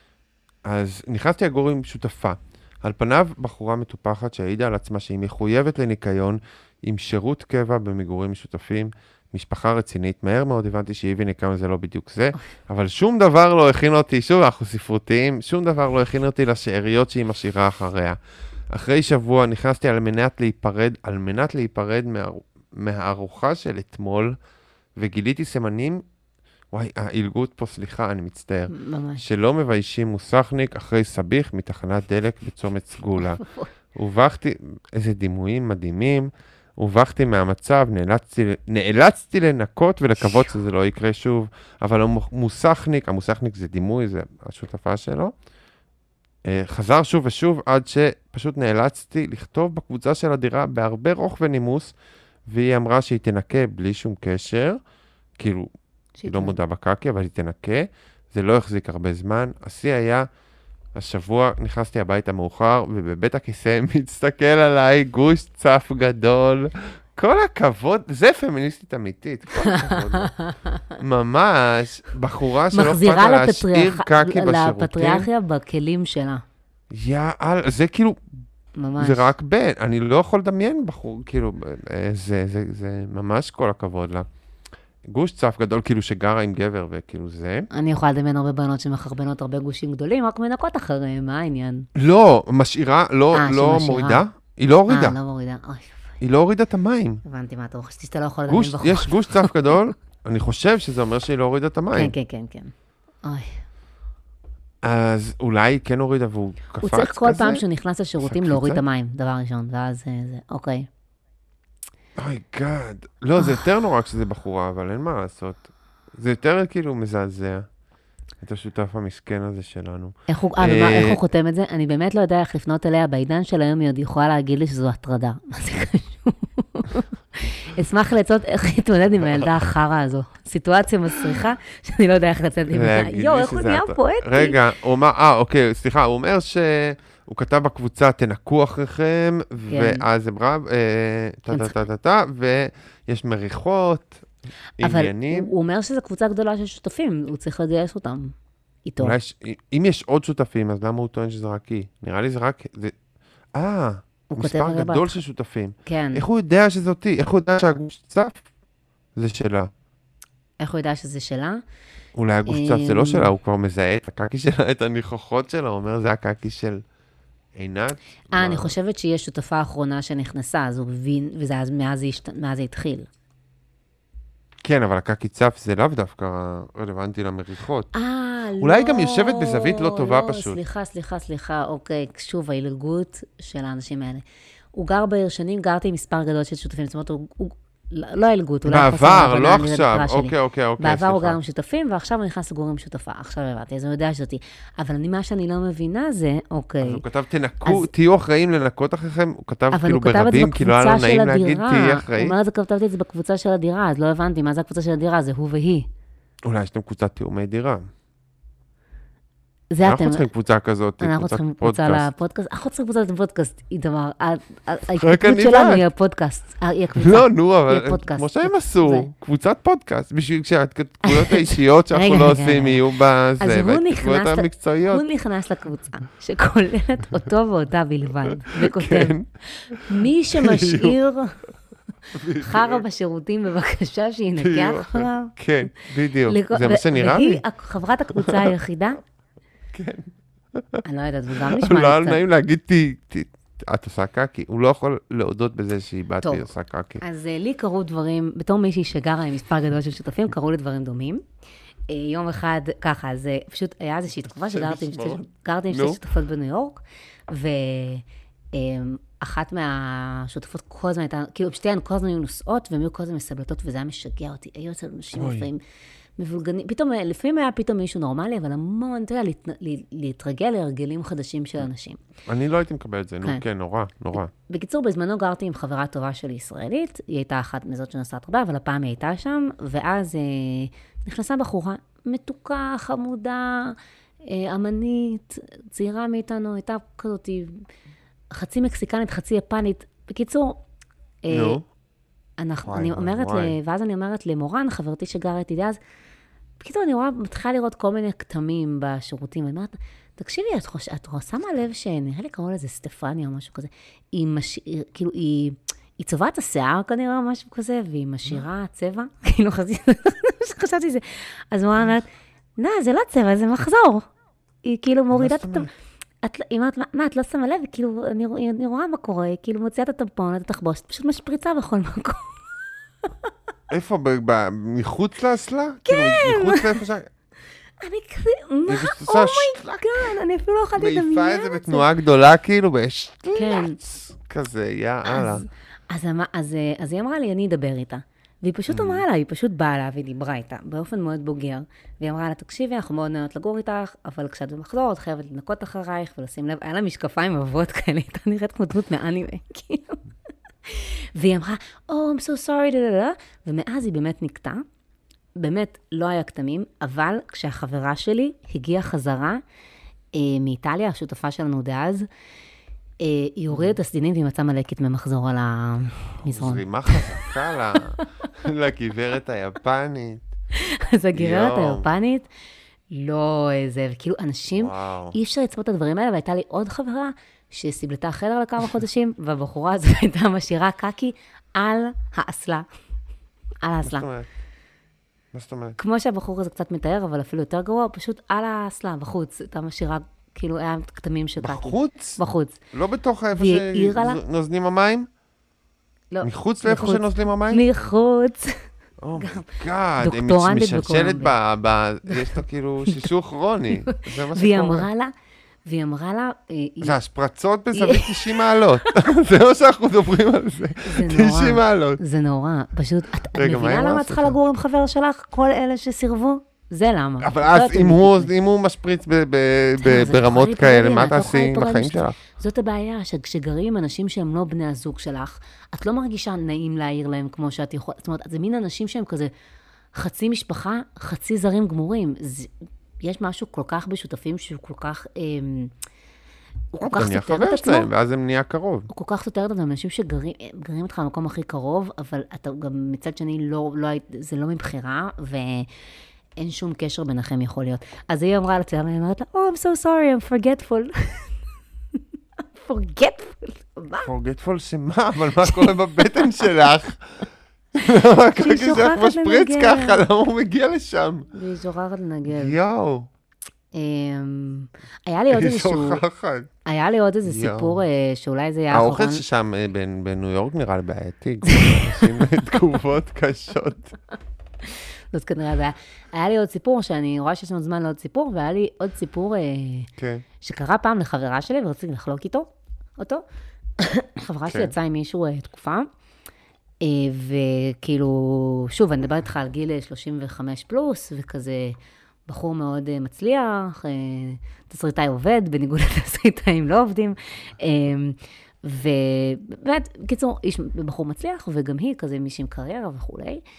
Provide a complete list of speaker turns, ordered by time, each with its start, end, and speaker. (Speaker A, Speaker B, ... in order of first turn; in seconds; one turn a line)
Speaker A: 0.6-18.2
Speaker A: 18.7-24.4
Speaker A: 24.9-26.0
Speaker A: 26.7-33.4
Speaker B: 28.7-29.2
Speaker B: 33.4-33.7
Speaker A: 33.9-45.3
Speaker A: 46.4-51.9
Speaker A: 52.5-54.8
Speaker A: 55.4-55.7
Speaker B: 56.2-56.5
Speaker A: 56.2-60.2
Speaker A: 60.9-70.3
Speaker B: 69.7-70.8
Speaker A: 71.0-75.3
Speaker B: 72.7-76.4
Speaker A: 76.9-78.2
Speaker B: 78.8-79.3
Speaker A: 79.0-84.3
Speaker A: 85.0-87.7
Speaker B: 87.7-91.9
Speaker A: 91.9-95.2
Speaker B: 93.3-94.2
Speaker B: 94.9-96.2
Speaker A: 96.2-97.2
Speaker B: 97.2-99.5
Speaker A: 98.5-102.1
Speaker B: 101.9-102.7
Speaker B: 103.2-103.6
Speaker A: 104.8-107.6
Speaker B: 106.8-110.9
Speaker A: 108.2-108.8
Speaker A: 112.2-117.7
Speaker B: 113.4-113.6
Speaker A: 118.4-121.2
Speaker B: 120.3-134.6
Speaker A: 132.7-144.2
Speaker B: 139.7-140.0
Speaker A: 144.8-145.5
Speaker B: 144.8-148.3
Speaker B: 148.8-149.2
Speaker A: 149.0-152.9
Speaker A: 153.5-158.4
Speaker B: 154.3-155.2
Speaker B: 155.8-156.2
Speaker A: 159.2-159.7
Speaker B: 160.6-161.6
Speaker A: 162.1-166.8
Speaker B: 162.4-163.3
Speaker A: 167.5-168.7
Speaker B: 168.3-173.1
Speaker A: 174.6-177.9
Speaker B: 177.9-197.0
Speaker A: 178.6-180.6
Speaker A: 188.7-191.4
Speaker A: 196.8-202.3
Speaker B: 197.6-197.9
Speaker B: 199.7-205.9
Speaker A: 206.4-207.8
Speaker B: 209.7-210.3
Speaker A: 209.8-212.1
Speaker B: 211.0-219.1
Speaker A: 215.0-215.8
Speaker A: 217.0-225.0
Speaker B: 221.0-222.8
Speaker B: 223.4-231.5
Speaker A: 228.5-231.0
Speaker B: 232.1-235.3
Speaker A: 232.1-232.8
Speaker A: 234.4-237.4
Speaker B: 236.3-239.0
Speaker A: 238.1-238.5
Speaker A: 239.7-240.8
Speaker B: 240.8-242.2
Speaker A: 241.3-247.0
Speaker B: 246.2-246.5
Speaker B: 247.0-251.2
Speaker B: 251.9-265.6
Speaker A: 254.3-256.0
Speaker A: 265.2-265.5
Speaker B: 266.2-272.0
Speaker A: 272.3-274.3
Speaker B: 274.1-287.6
Speaker B: 288.3-290.6
Speaker B: 291.2-291.6
Speaker A: 291.3-291.6
Speaker B: 292.4-295.8
Speaker A: 292.6-293.6
Speaker B: 296.6-314.1
Speaker B: 314.6-315.7
Speaker A: 315.1-315.7
Speaker B: 316.2-322.4
Speaker B: 323.0-323.3
Speaker A: 323.7-327.1
Speaker B: 325.9-326.8
Speaker B: 327.8-331.9
Speaker A: 328.7-330.1
Speaker A: 330.7-335.4
Speaker B: 333.3-333.8
Speaker B: 335.1-350.0
Speaker A: 338.7-339.0
Speaker B: 350.6-354.6
Speaker B: 355.4-359.4
Speaker B: 360.1-362.1
Speaker B: 363.0-367.2
Speaker A: 366.2-370.2
Speaker B: 370.5-372.3
Speaker A: 371.1-371.9
Speaker B: 372.9-382.6
Speaker A: 374.5-375.1
Speaker B: 383.6-384.1
Speaker A: 383.8-384.3
Speaker A: 385.3-385.8
Speaker B: 385.8-392.6
Speaker A: 391.4-392.2
Speaker A: 392.7-395.1
Speaker B: 393.3-394.2
Speaker B: 396.1-398.6
Speaker A: 396.2-397.6
Speaker A: 399.0-404.9
Speaker B: 399.2-401.3
Speaker B: 403.7-405.1
Speaker B: 405.6-406.9
Speaker A: 406.8-412.0
Speaker B: 407.7-408.9
Speaker B: 410.8-418.3
Speaker A: 413.3-414.4
Speaker A: 417.2-422.2
Speaker B: 419.8-429.3
Speaker B: 429.9-435.7
Speaker B: 436.7-437.9
Speaker A: 436.8-438.9
Speaker B: 438.9-445.7
Speaker B: 446.4-451.4
Speaker B: 452.6-454.1
Speaker A: 454.0-461.3
Speaker B: 455.4-456.5
Speaker B: 457.8-460.0
Speaker B: 461.3-462.6
Speaker A: 462.3-463.1
Speaker B: 463.7-466.0
Speaker A: 465.3-466.5
Speaker B: 466.6-469.2
Speaker A: 467.2-467.8
Speaker A: 468.7-474.0
Speaker B: 471.4-472.3
Speaker B: 474.6-479.9
Speaker A: 480.0-480.2
Speaker B: 480.4-483.2
Speaker B: 483.8-485.9
Speaker A: 484.5-484.7
Speaker B: 486.8-491.8
Speaker B: 492.3-503.4